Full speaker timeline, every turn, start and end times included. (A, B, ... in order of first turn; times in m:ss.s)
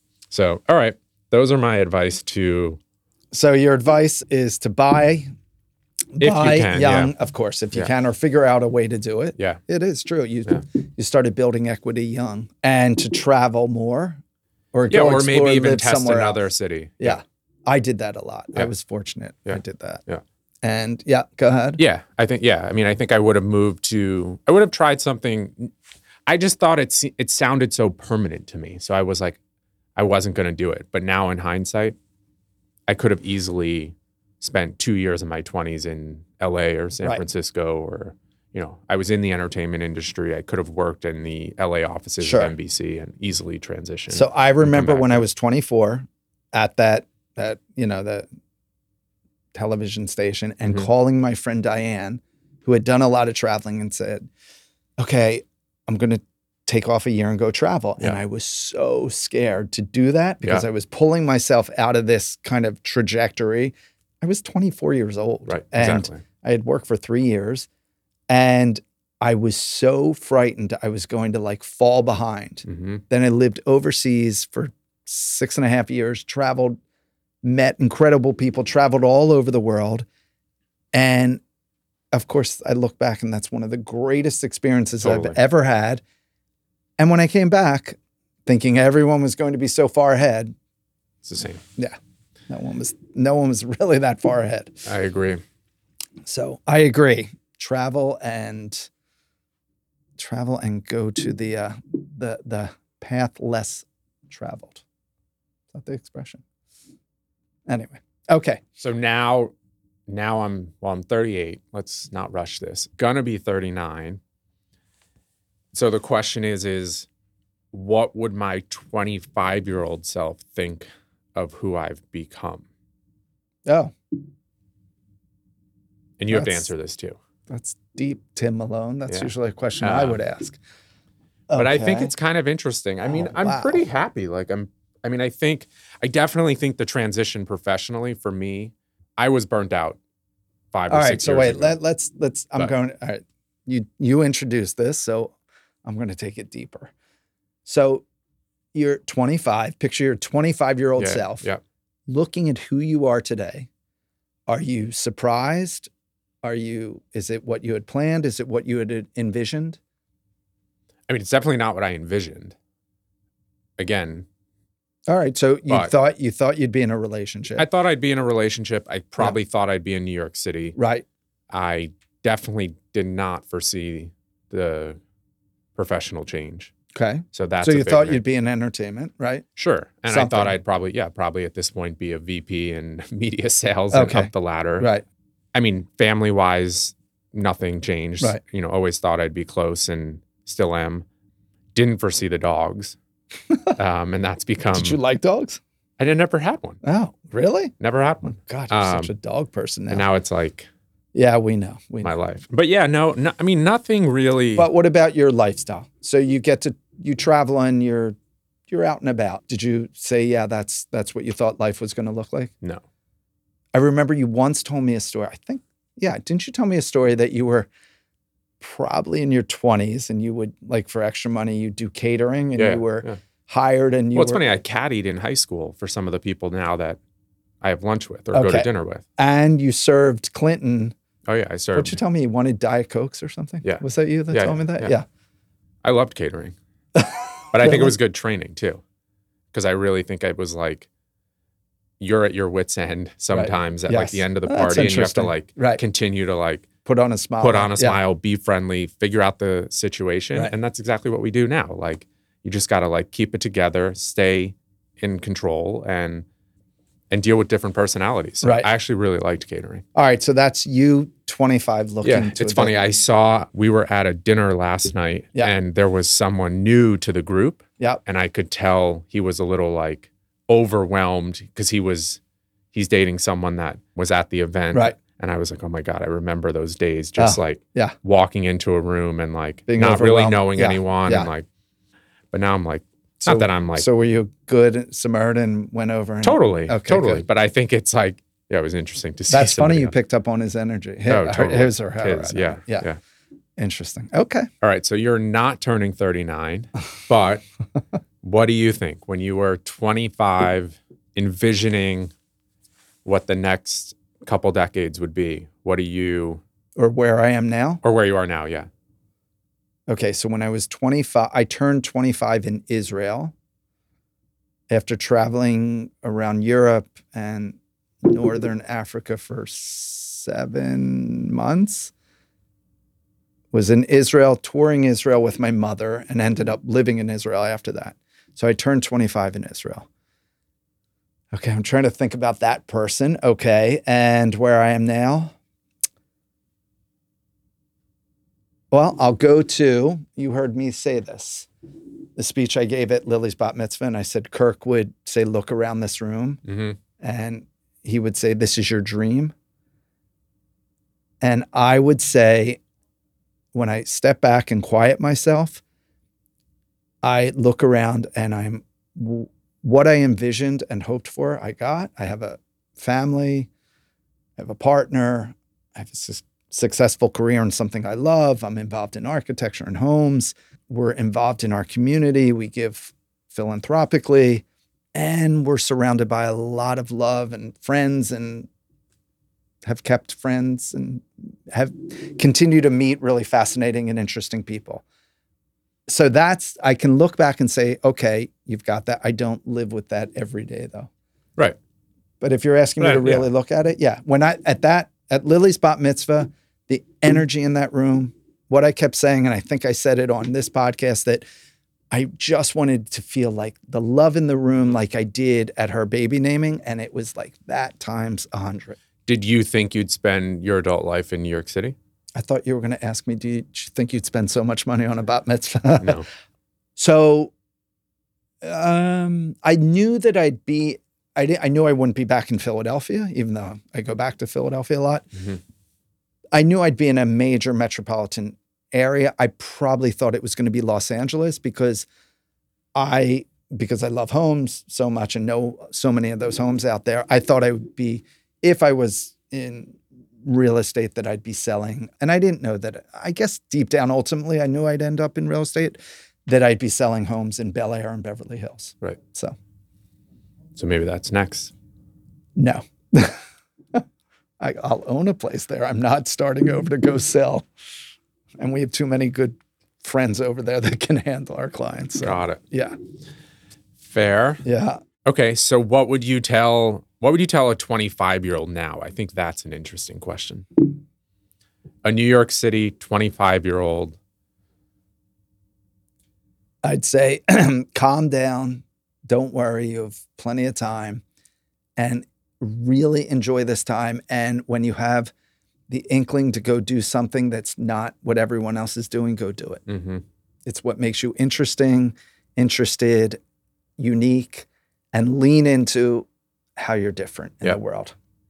0:00.3-0:02.8 A
0:03.3-0:05.3 B
0:06.2-0:14.2 B
0:06.2-0:07.1 A
0:14.7-0:16.4 B
0:14.9-0:17.2 A
0:17.0-0:20.0 B
0:19.5-0:20.2 A
0:20.6-0:21.8 B
0:21.8-0:25.7 A
0:26.2-0:29.4 A
0:30.0-0:32.0 A
0:32.9-0:45.2 A
0:42.2-0:42.5 B
0:44.1-0:48.3 B
0:49.5-0:54.3 B
0:55.0-1:07.7 B
1:05.5-1:06.2 A
1:08.3-1:16.8 B
1:12.7-1:13.0 A
1:17.4-1:20.0 B
1:20.9-1:21.4 B
1:22.1-1:26.0 B
1:25.0-1:25.4 A
1:27.0-1:30.5 B
1:31.2-1:31.6 A
1:32.5-1:34.9 B
1:34.8-1:35.4 A
1:36.2-1:38.9 B
1:40.2-1:44.8 B
1:45.7-1:46.4 B
1:47.7-1:48.6 B
1:48.8-1:49.5 A
1:50.1-1:54.2 A
1:55.7-1:57.1 A
1:57.7-2:02.6 A
2:03.6-2:03.9 B
2:06.2-2:07.2 A
2:06.3-2:06.7 B
2:07.5-2:10.6 B
2:09.1-2:10.2 A
2:11.5-2:12.1 B
2:11.5-2:20.0 A
2:13.0-2:13.8 B
2:20.7-2:21.8 A
2:20.9-2:25.3 B
2:25.8-2:26.9 B
2:27.6-2:28.0 B
2:28.7-2:31.5 B
2:31.0-2:31.6 A
2:32.1-2:33.7 B
2:34.5-2:35.9 B
2:36.4-2:39.8 B
2:41.1-2:42.6 A
2:43.8-2:44.2 A
2:45.1-2:47.6 B
2:47.6-2:50.8 A
2:50.8-2:51.0 B
2:51.5-2:55.0 A
2:55.8-2:56.7 A
2:56.9-2:59.4 B
2:57.3-2:58.2 A
2:59.6-3:04.9 A
3:00.1-3:00.6 B
3:03.9-3:05.0 B
3:05.5-3:11.0 A
3:11.7-3:13.0 A
3:13.7-3:15.0 A
3:14.7-3:15.6 B
3:16.0-3:16.8 A
3:16.8-3:20.0 B
3:17.8-3:19.1 A
3:19.9-3:20.7 A
3:21.1-3:22.1 B
3:22.0-3:24.7 A
3:24.6-3:28.2 B
3:28.7-3:32.5 B
3:33.7-3:37.7 B
3:38.6-3:44.4 B
3:42.6-3:43.2 A
3:44.1-3:47.0 A
3:47.6-3:49.0 A
3:48.3-3:50.9 B
3:51.2-3:52.0 A
3:51.7-3:55.0 B
3:53.6-3:54.9 A
3:55.8-3:56.5 A
3:56.9-3:57.9 B
3:57.5-3:58.8 A
3:59.5-4:00.9 A
4:02.0-4:06.7 A
4:03.3-4:05.8 B
4:06.8-4:08.0 B
4:07.4-4:16.2 A
4:17.1-4:19.8 A
4:18.4-4:18.7 B
4:19.9-4:22.8 B
4:22.0-4:32.2 A
4:32.7-4:41.4 A
4:37.2-4:37.9 B
4:39.7-4:41.3 B
4:42.3-4:43.9 A
4:43.2-4:47.2 B
4:46.2-4:49.9 A
4:49.3-4:52.8 B
4:51.1-4:53.0 A
4:53.6-4:54.5 B
4:54.6-4:57.4 A
4:58.2-5:02.1 A
5:03.0-5:06.4 A
5:06.8-5:07.8 B
5:07.8-5:08.7 A
5:09.9-5:13.3 B
5:14.7-5:21.9 B
5:23.5-5:29.8 B
5:31.3-5:35.3 B
5:38.7-5:41.5 B
5:42.2-5:46.4 B
5:46.5-5:46.8 A
5:47.0-5:49.3 B
5:51.2-5:52.6 B
5:53.5-5:55.6 B
5:57.0-6:03.5 B
6:04.4-6:14.4 B
6:14.9-6:18.5 B
6:19.6-6:24.8 B
6:25.9-6:30.9 B
6:32.2-6:41.2 B
6:32.8-6:33.3 A
6:41.9-6:48.8 B
6:49.0-6:51.8 A
6:52.2-6:56.0 B
6:55.8-6:56.1 A
6:56.8-6:57.3 B
6:58.4-7:05.3 B
7:06.3-7:11.9 B
7:12.7-7:29.4 B
7:30.5-7:31.5 A
7:32.4-7:33.2 B
7:34.4-7:37.4 B
7:38.4-7:42.8 B
7:42.0-7:42.4 A
7:43.8-7:44.4 A
7:44.4-7:44.8 B
7:45.0-7:50.5 A
7:51.8-7:54.0 A
7:56.6-8:01.0 B
8:01.8-8:05.1 B
8:05.7-8:09.6 B
8:09.7-8:10.0 A
8:10.4-8:13.2 B
8:13.8-8:16.0 B
8:16.6-8:17.9 B